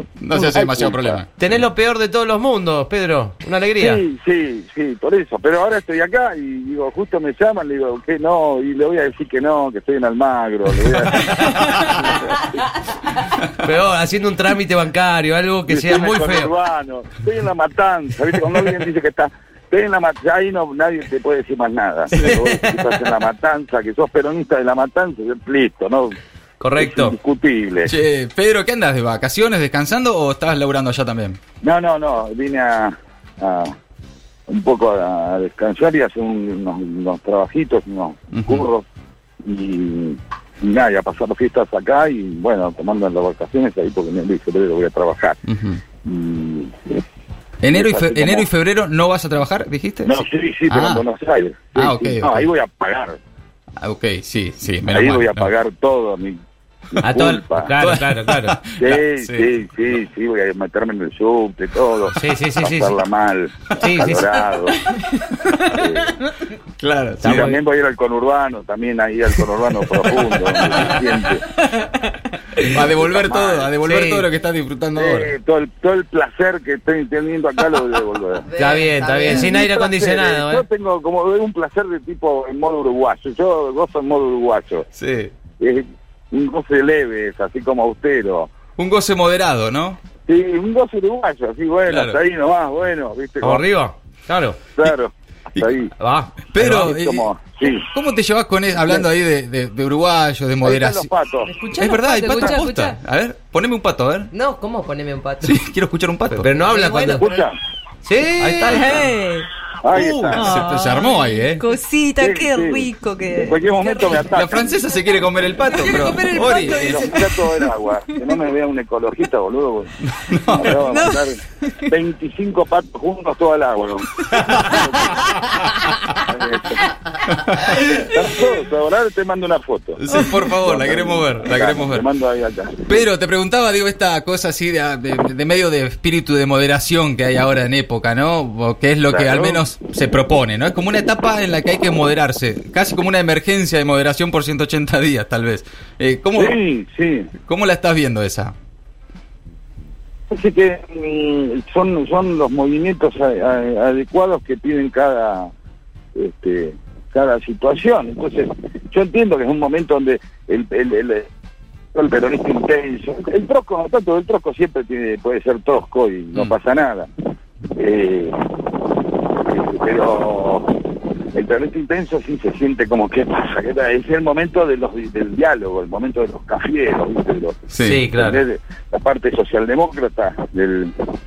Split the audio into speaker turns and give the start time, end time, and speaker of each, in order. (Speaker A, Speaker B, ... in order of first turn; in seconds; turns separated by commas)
Speaker A: 0.2-1.4, Speaker B: 0.3-1.2, Speaker C: 1.4-4.0, Speaker B: 3.8-12.6, Speaker C: 11.5-12.0, Speaker C: 13.6-16.5, Speaker B: 15.7-26.2, Speaker A: 22.1-22.4, Speaker C: 26.6-27.1, Speaker B: 26.8-27.9, Speaker A: 27.9-31.4, Speaker B: 31.6-33.7, Speaker B: 34.5-38.8, Speaker A: 38.3-38.6, Speaker B: 39.4-45.4, Speaker A: 45.5-45.8, Speaker B: 46.0-46.7, Speaker A: 47.6-51.0, Speaker B: 47.7-48.5, Speaker B: 50.0-53.2, Speaker A: 51.7-52.5, Speaker A: 53.8-55.5, Speaker B: 54.9-56.4, Speaker B: 56.9-57.7, Speaker C: 57.0-58.6, Speaker A: 57.8-59.5, Speaker B: 58.8-64.8, Speaker C: 62.1-62.9, Speaker C: 63.8-64.2, Speaker B: 65.6-66.2, Speaker A: 66.8-67.5, Speaker C: 67.2-67.6, Speaker B: 67.2-71.4, Speaker A: 70.1-70.9, Speaker A: 72.6-75.3, Speaker B: 72.7-73.7, Speaker C: 73.8-74.2, Speaker B: 75.0-78.5, Speaker D: 78.4-79.4, Speaker C: 78.6-80.6, Speaker B: 79.2-84.9, Speaker A: 85.0-85.3, Speaker B: 85.6-88.5, Speaker A: 88.8-90.0, Speaker B: 90.3-93.7, Speaker A: 91.8-92.2, Speaker C: 93.4-94.6, Speaker B: 94.8-95.9, Speaker C: 96.0-96.3, Speaker A: 96.5-101.1, Speaker B: 96.5-97.9, Speaker B: 100.6-101.5, Speaker E: 101.6-102.9, Speaker A: 101.8-104.3, Speaker D: 104.3-105.5, Speaker A: 105.4-106.5, Speaker C: 106.3-107.3, Speaker D: 106.7-107.4, Speaker B: 107.1-107.6, Speaker C: 108.0-109.0, Speaker E: 108.4-109.5, Speaker A: 108.7-109.1, Speaker B: 109.8-110.5, Speaker C: 109.9-110.4, Speaker E: 110.3-114.3, Speaker A: 110.4-111.6, Speaker B: 112.2-114.7, Speaker A: 114.3-117.0, Speaker E: 115.7-117.6, Speaker C: 116.3-116.9, Speaker B: 116.4-120.0, Speaker A: 120.3-120.8, Speaker B: 120.5-125.3, Speaker E: 120.8-121.2, Speaker B: 126.2-126.9, Speaker A: 127.4-128.0, Speaker B: 127.7-133.0, Speaker A: 130.0-132.0, Speaker A: 132.9-146.6, Speaker B: 139.1-139.6, Speaker B: 146.3-147.3, Speaker A: 147.4-148.5, Speaker B: 150.3-155.5, Speaker B: 156.1-161.3, Speaker B: 161.9-167.1, Speaker B: 167.8-181.1, Speaker A: 177.7-178.1, Speaker C: 177.8-178.4